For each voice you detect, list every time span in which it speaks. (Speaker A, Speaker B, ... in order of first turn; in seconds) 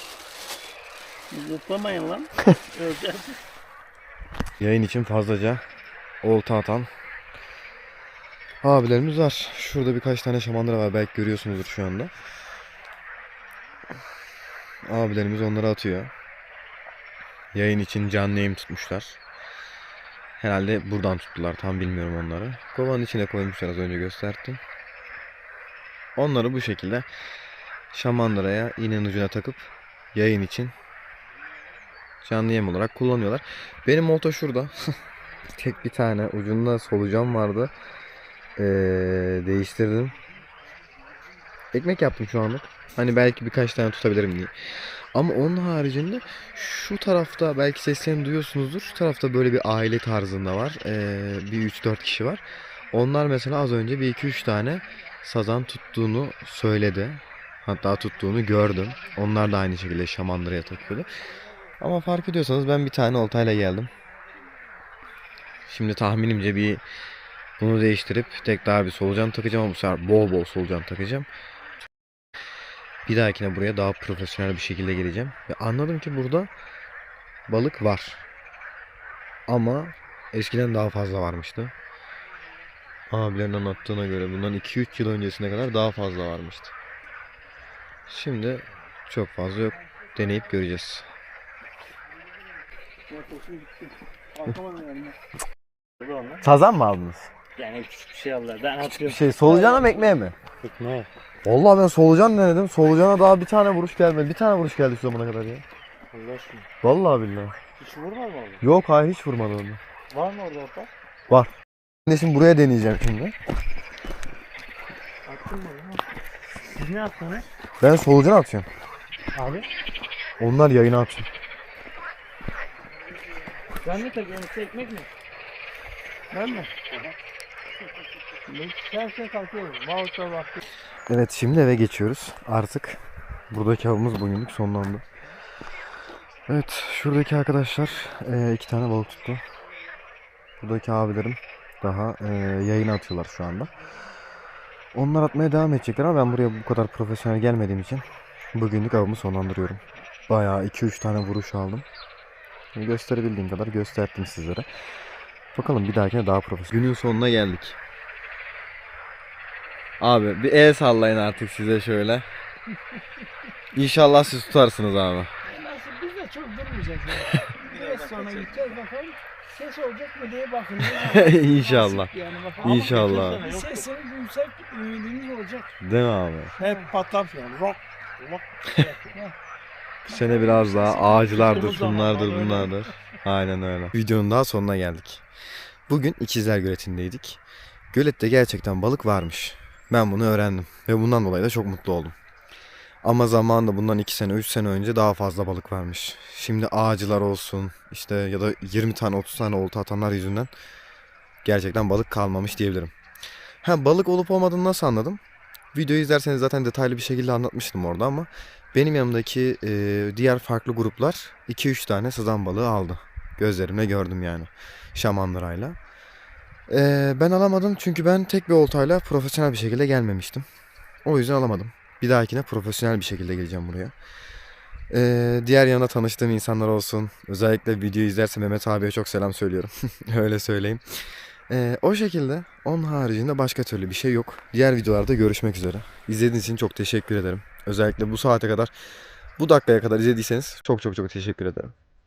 Speaker A: 1.3-3.4, 93.1-95.2, 96.0-96.4, 97.6-100.1, 100.7-100.9, 106.1-106.6, 107.8-108.6, 110.1-110.9, 115.2-116.0, 116.8-117.5, 119.3-119.7, 123.8-125.1, 126.3-126.9, 128.4-130.6, 167.6-168.7, 172.6-173.9, 176.6-179.1, 180.2-182.9
Speaker B: 4.6-5.6, 6.2-6.9, 8.6-12.1, 14.8-16.1, 17.5-19.2, 20.4-24.6, 26.1-27.1, 27.9-30.7, 32.2-35.0, 35.5-37.7, 38.5-40.1, 41.7-61.1, 61.8-63.9, 65.7-66.8, 67.6-71.3, 73.0-76.5, 77.5-78.3, 79.5-81.7, 83.1-86.7, 88.1-91.1, 96.4-97.3, 98.8-100.3, 101.4-105.6, 106.8-107.5, 108.6-109.8, 112.0-113.3, 117.8-118.7, 120.4-121.3, 131.1-135.0, 136.5-139.4, 140.6-143.7, 144.9-151.8, 152.7-154.7, 155.5-157.8, 160.0-162.3, 163.7-165.3, 170.9-173.4, 175.8-176.5, 180.1-185.2, 185.9-187.4, 187.9-192.2, 193.0-200.5, 201.4-202.9, 203.6-205.2, 205.7-215.8, 216.7-220.4, 221.0-223.9, 224.9-238.7, 239.4-241.7
Speaker C: 165.4-175.7, 176.6-176.9